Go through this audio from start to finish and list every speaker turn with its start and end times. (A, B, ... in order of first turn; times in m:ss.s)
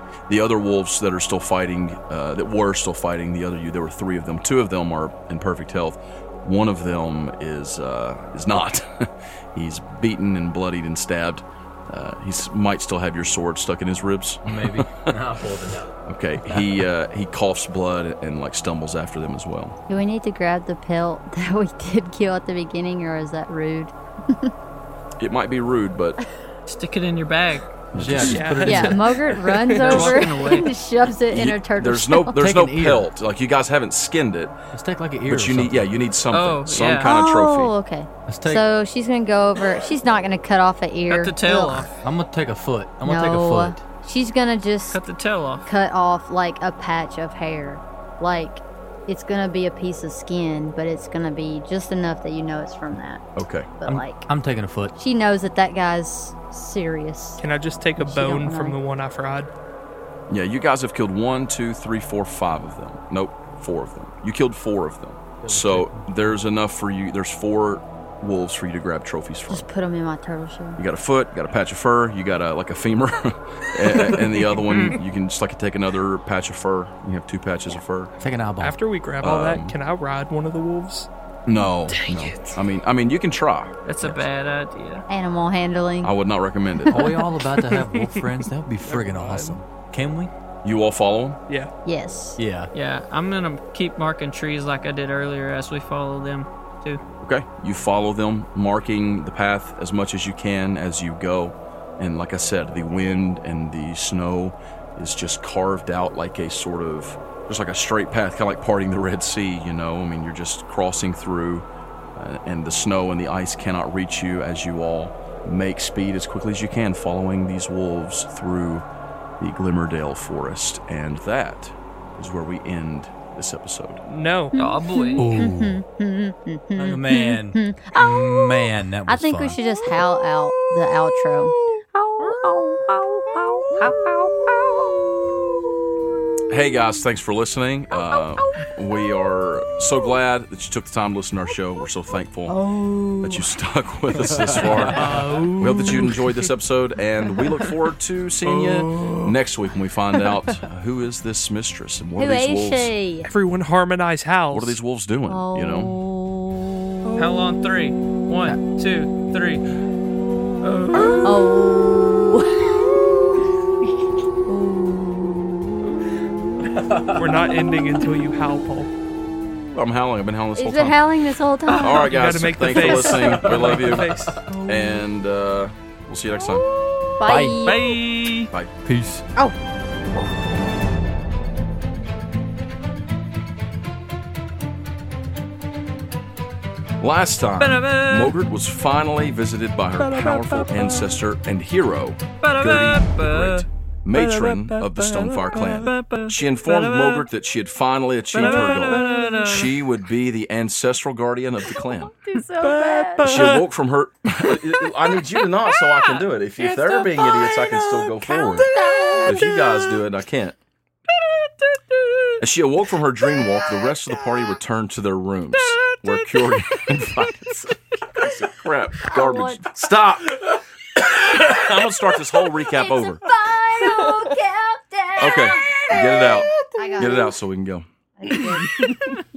0:00.3-0:15.1 A
0:14.4-0:16.8 B
0:16.0-0:19.8 A
0:19.9-0:24.5 C
0:25.2-0:26.2 A
0:26.7-0:27.7 D
0:27.9-0:28.5 A
0:28.0-0:29.1 B
0:28.2-0:30.3 E
0:28.6-0:32.4 C
0:29.7-0:30.7 D
0:31.3-0:34.6 A
0:32.4-0:33.1 B
0:34.7-0:35.9 B
0:35.3-0:37.7 A
0:36.3-0:37.1 D
0:37.0-0:41.9 C
0:38.3-0:38.6 B
0:41.1-0:41.9 D
0:42.0-0:43.8 B
0:43.0-0:45.0 C
0:44.9-0:45.7 D
0:45.6-0:53.2 C
0:53.4-0:53.7 A
0:53.8-0:54.3 C
0:53.8-0:54.9 B
0:55.0-0:57.4 C
0:57.4-0:59.5 E
0:58.0-0:58.8 C
1:00.3-1:09.7 A
1:05.4-1:06.1 B
1:09.5-1:10.8 C
1:10.8-1:18.1 A
1:14.6-1:15.0 D
1:18.2-1:18.8 B
1:18.6-1:21.1 E
1:19.2-1:19.8 A
1:21.5-1:24.3 A
1:21.9-1:22.6 E
1:23.8-1:25.0 D
1:25.1-1:26.1 C
1:26.0-1:27.1 A
1:26.9-1:30.3 B
1:26.9-1:29.6 E
1:30.6-1:31.4 A
1:31.8-1:32.4 C
1:32.4-1:32.7 B
1:32.7-1:37.0 D
1:37.2-1:58.8 A
1:59.4-2:04.0 A
2:04.1-2:04.5 E
2:04.5-2:15.3 C
2:04.6-2:05.4 D
2:05.2-2:05.8 B
2:06.8-2:09.6 B
2:16.5-2:22.6 A
2:18.0-2:18.6 C
2:22.7-2:23.4 C
2:23.2-2:32.9 A
2:24.2-2:25.5 B
2:24.9-2:26.2 E
2:32.2-2:33.3 C
2:33.2-2:34.8 E
2:34.5-2:36.0 A
2:35.3-2:36.5 C
2:37.2-2:39.6 D
2:40.6-2:41.4 D
2:40.9-2:43.0 C
2:44.4-2:45.9 C
2:46.6-2:47.4 B
2:47.1-2:48.9 E
2:49.7-2:51.0 A
2:50.6-2:52.1 C
2:51.7-2:52.0 D
2:51.8-2:56.6 A
2:52.0-2:54.5 E
2:53.2-2:54.4 B
2:57.1-2:58.0 C
2:57.2-2:57.6 B
2:57.6-2:58.5 D
2:58.8-2:59.2 B
3:07.0-3:22.2 A
3:07.6-3:08.3 D
3:12.4-3:13.6 D
3:14.4-3:15.2 B
3:15.7-3:17.2 D
3:18.3-3:19.8 D
3:22.2-3:23.4 C
3:23.2-3:28.7 A
3:26.6-3:28.1 D
3:28.3-3:29.4 C
3:29.2-3:29.7 D
3:29.2-3:30.6 A
3:31.2-3:32.4 D
3:32.4-3:43.2 A
3:35.6-3:37.2 D
3:39.1-3:39.6 C
3:42.5-3:47.4 C
3:45.2-3:47.9 A
3:48.2-3:49.2 C